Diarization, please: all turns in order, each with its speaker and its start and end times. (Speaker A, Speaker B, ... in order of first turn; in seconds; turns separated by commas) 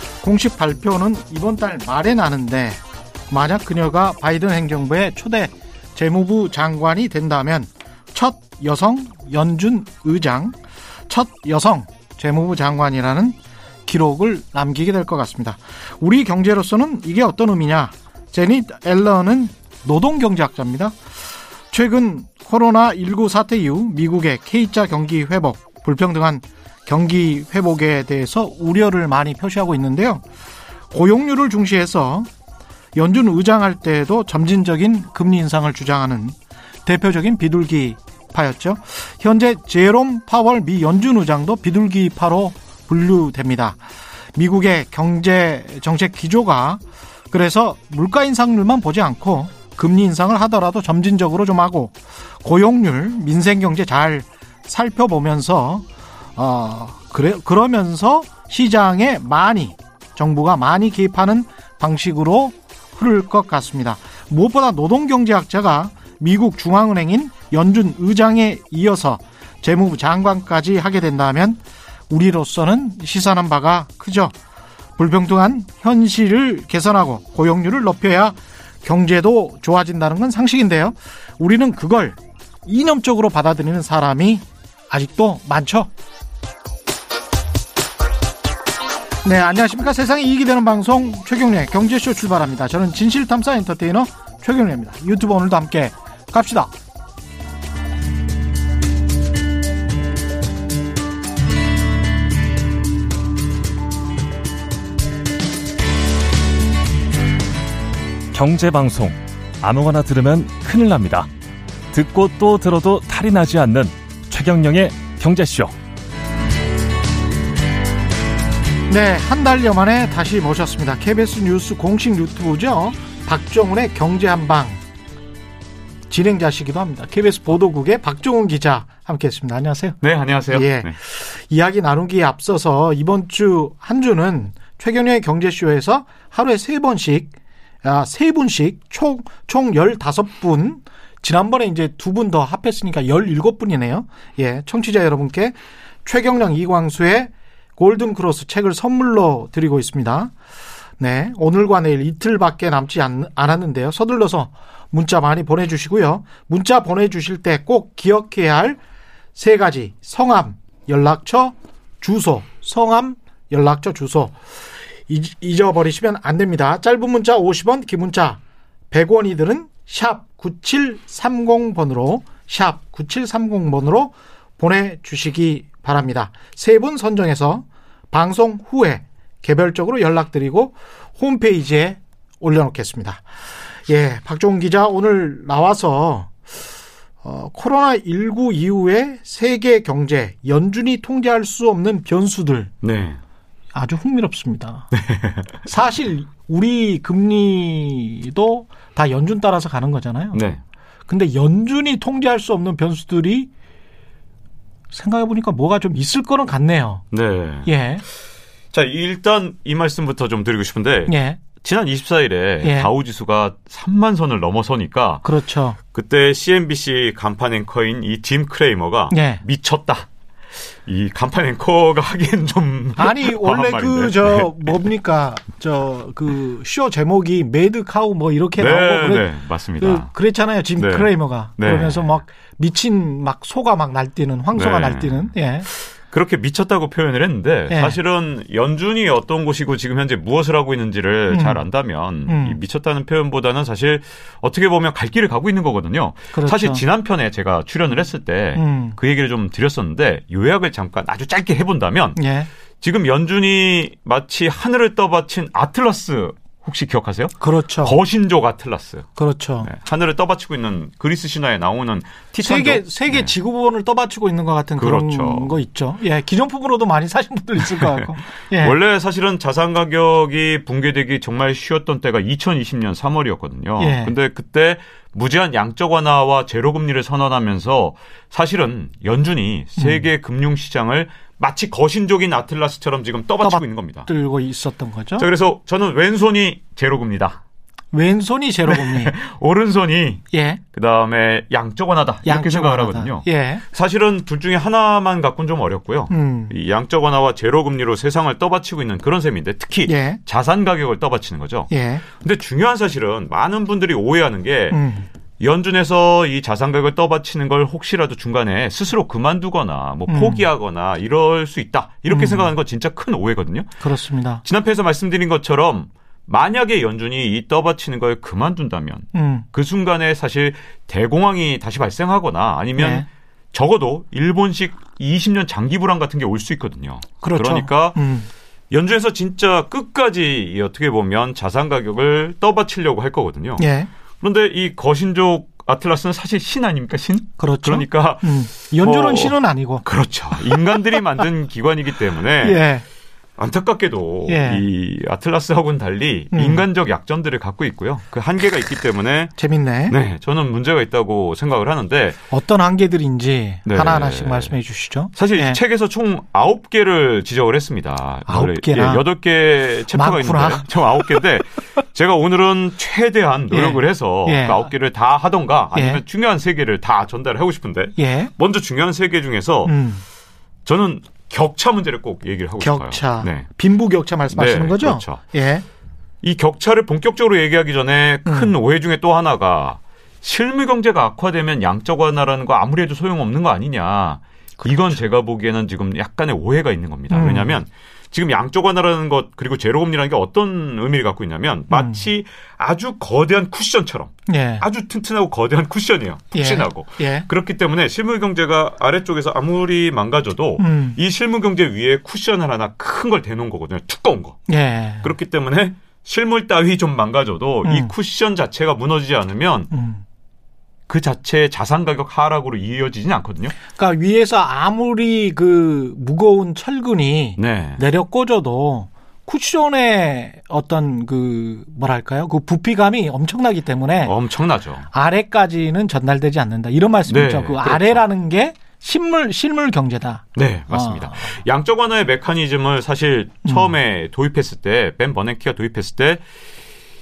Speaker A: 0.2-10.5, Speaker A: 11.1-21.0, Speaker A: 21.7-30.2, Speaker A: 30.9-32.3, Speaker A: 32.9-43.8, Speaker A: 44.4-74.3, Speaker A: 75.0-85.9, Speaker A: 89.2-96.7, Speaker B: 108.3-111.3, Speaker B: 111.9-115.7, Speaker A: 118.9-124.8, Speaker A: 126.1-130.0, Speaker C: 130.0-130.9, Speaker A: 130.5-137.3, Speaker A: 137.8-150.3, Speaker A: 151.0-158.8, Speaker A: 159.3-164.3, Speaker A: 165.1-168.4, Speaker A: 168.9-183.2, Speaker A: 183.9-186.3, Speaker A: 187.2-192.7, Speaker C: 192.8-193.2, Speaker A: 193.7-194.9, Speaker C: 194.9-195.7, Speaker A: 195.7-200.4, Speaker C: 200.3-200.6, Speaker A: 201.1-203.5, Speaker A: 204.9-207.0, Speaker C: 207.1-207.7, Speaker A: 207.6-208.0, Speaker C: 208.7-215.2, Speaker A: 211.1-211.4, Speaker A: 212.6-212.9, Speaker A: 215.2-215.8, Speaker C: 215.8-220.1, Speaker A: 219.1-219.4, Speaker C: 220.8-224.8, Speaker A: 223.0-235.7, Speaker C: 228.6-230.1, Speaker C: 230.8-232.2, Speaker C: 234.5-252.2, Speaker A: 237.7-238.0, Speaker A: 241.3-241.6, Speaker A: 242.3-242.6, Speaker A: 246.3-246.8, Speaker A: 248.6-248.9, Speaker A: 252.2-252.5, Speaker C: 252.8-259.1, Speaker A: 257.4-257.9, Speaker A: 259.1-259.7, Speaker C: 259.6-263.3, Speaker A: 262.4-268.7, Speaker C: 264.8-265.6, Speaker C: 267.6-284.1, Speaker A: 273.8-274.1, Speaker A: 279.8-280.0, Speaker A: 283.4-285.3, Speaker C: 285.2-287.4, Speaker A: 287.9-289.1, Speaker C: 288.7-304.8, Speaker A: 290.3-290.6, Speaker A: 292.2-293.6, Speaker A: 296.1-296.5, Speaker A: 299.9-300.2, Speaker A: 301.7-302.0, Speaker A: 304.7-305.1, Speaker C: 305.4-313.7, Speaker A: 310.1-310.4, Speaker A: 312.1-312.5, Speaker A: 313.8-314.4, Speaker C: 314.4-328.0, Speaker A: 319.1-319.4, Speaker A: 322.8-323.1, Speaker A: 327.2-328.3, Speaker C: 328.7-333.6, Speaker A: 333.6-333.9, Speaker C: 334.2-342.6, Speaker A: 337.4-339.8, Speaker A: 340.5-340.8, Speaker A: 342.4-342.8, Speaker C: 343.4-349.3, Speaker A: 344.2-344.6, Speaker A: 346.3-346.6, Speaker A: 349.4-349.9, Speaker C: 349.9-352.2, Speaker A: 352.3-355.6, Speaker C: 353.6-354.5, Speaker C: 355.1-369.7, Speaker A: 358.3-359.0, Speaker A: 359.9-361.2, Speaker A: 363.5-364.7, Speaker A: 365.7-366.0, Speaker A: 367.9-368.3, Speaker A: 369.6-370.0, Speaker C: 370.6-373.5, Speaker A: 372.6-375.6, Speaker C: 374.3-375.2, Speaker C: 376.2-404.4, Speaker A: 378.2-378.5, Speaker A: 384.6-384.9, Speaker A: 387.1-387.6, Speaker A: 391.7-392.0, Speaker A: 394.3-394.6, Speaker A: 396.3-397.3, Speaker A: 400.6-401.0, Speaker A: 404.5-405.1, Speaker C: 405.0-409.7, Speaker A: 407.6-407.9, Speaker A: 409.7-410.0, Speaker C: 410.9-413.6, Speaker A: 413.7-424.1, Speaker C: 417.4-417.8, Speaker C: 424.0-424.9, Speaker A: 424.9-431.4, Speaker C: 427.1-428.0, Speaker C: 430.3-436.2, Speaker A: 433.4-433.7